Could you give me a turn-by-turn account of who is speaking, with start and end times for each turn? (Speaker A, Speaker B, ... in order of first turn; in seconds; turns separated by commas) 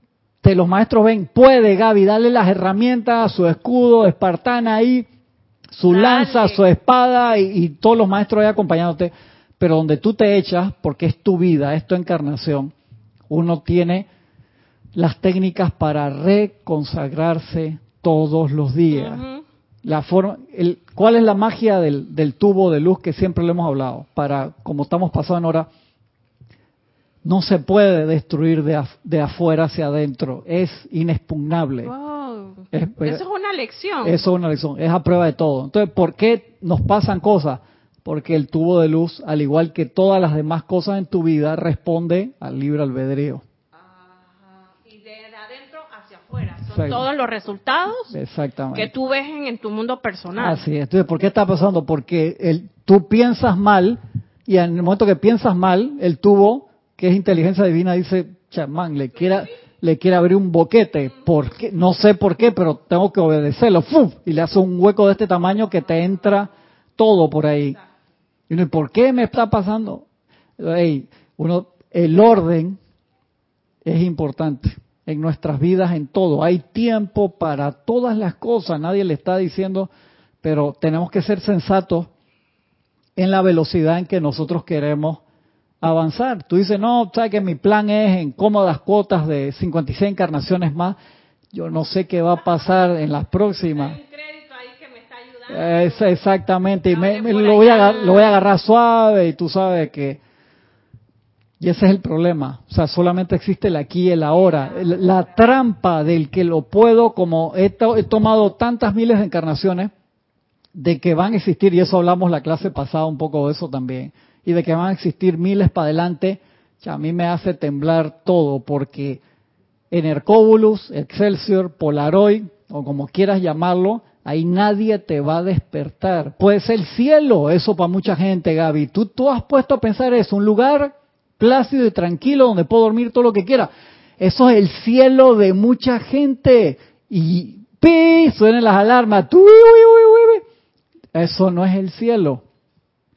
Speaker A: 0.4-5.1, Speaker A: 5.7-12.7, Speaker B: 5.9-6.6, Speaker A: 13.3-14.1, Speaker A: 14.9-19.2, Speaker B: 18.9-19.4, Speaker A: 19.8-25.7, Speaker A: 27.2-31.9, Speaker B: 31.8-34.2, Speaker A: 32.7-33.2, Speaker A: 34.0-43.4, Speaker B: 43.7-48.1, Speaker A: 46.7-47.0, Speaker A: 48.1-48.9, Speaker B: 48.7-50.6, Speaker A: 50.4-67.8, Speaker A: 68.5-70.0, Speaker A: 70.6-72.8, Speaker A: 73.8-79.9, Speaker A: 80.4-82.1, Speaker A: 83.2-85.2, Speaker A: 85.8-91.0, Speaker A: 91.5-94.0, Speaker B: 93.7-96.2, Speaker A: 95.5-100.2, Speaker B: 96.9-98.4, Speaker A: 101.6-109.9, Speaker B: 104.5-105.1, Speaker A: 110.7-119.2, Speaker A: 119.9-140.4, Speaker A: 141.1-142.4